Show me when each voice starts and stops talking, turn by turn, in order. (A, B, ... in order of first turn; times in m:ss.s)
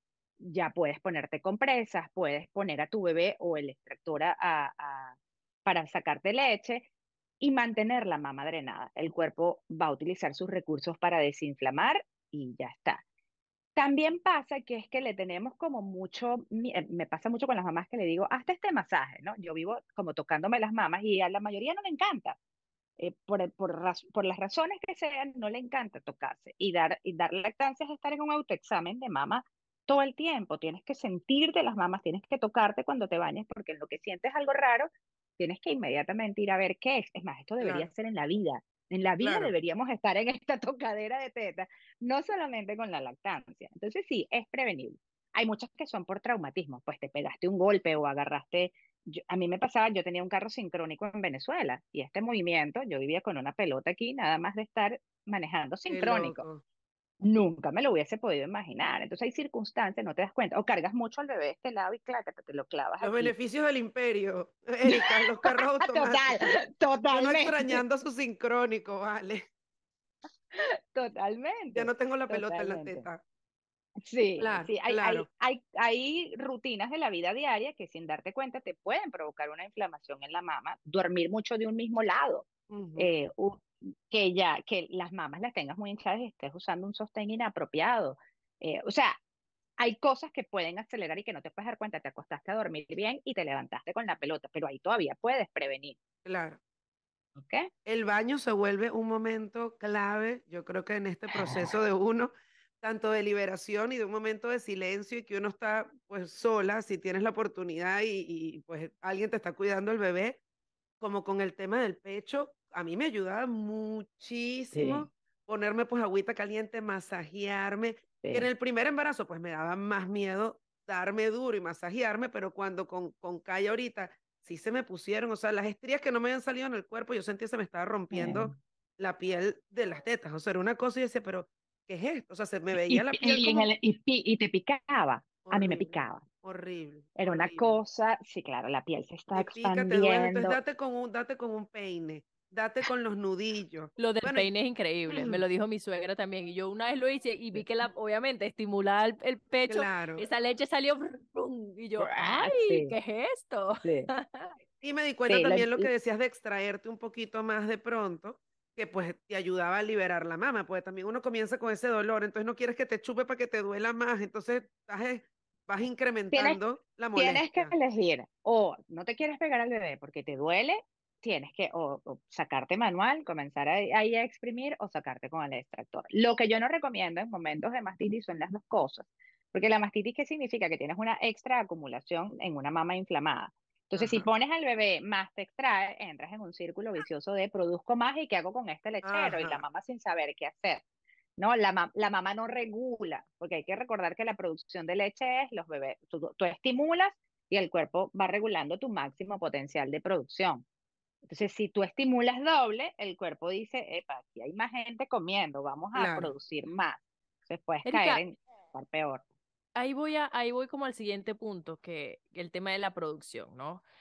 0:00.4-0:06.9 A
0:07.4-0:13.0 A
0:13.8-0:22.4 A
0:23.0-0:56.4 A
0:37.6-0:37.9 B
0:39.2-0:39.5 B
0:55.9-0:56.6 B
0:57.2-1:03.3 A
1:03.0-1:06.4 B
1:04.8-1:07.8 A
1:07.1-1:09.4 B
1:10.5-1:13.0 A
1:11.7-1:13.2 B
1:14.0-1:29.2 A
1:14.4-1:15.3 B
1:22.7-1:23.1 B
1:29.8-1:36.0 A
1:36.2-1:36.6 B
1:37.4-1:37.7 A
1:37.9-1:50.4 B
1:41.3-1:41.6 A
1:51.0-2:13.7 B
1:54.7-1:55.1 A
1:58.2-1:58.5 A
2:08.1-2:08.6 A
2:12.8-2:16.2 A
2:15.4-2:17.8 B
2:17.2-2:20.6 A
2:19.3-2:24.5 B
2:24.0-2:34.5 C
2:25.1-2:25.4 B
2:29.7-2:30.3 B
2:32.0-2:32.9 A
2:33.8-2:34.1 A
2:34.8-2:47.7 B
2:35.3-2:35.9 A
2:46.3-2:46.6 A
2:47.2-3:10.8 A
3:04.0-3:04.2 B
3:09.0-3:09.6 B
3:11.4-3:20.6 A
3:21.3-3:29.2 A
3:25.9-3:26.3 B
3:27.8-3:28.2 C
3:29.8-3:33.8 C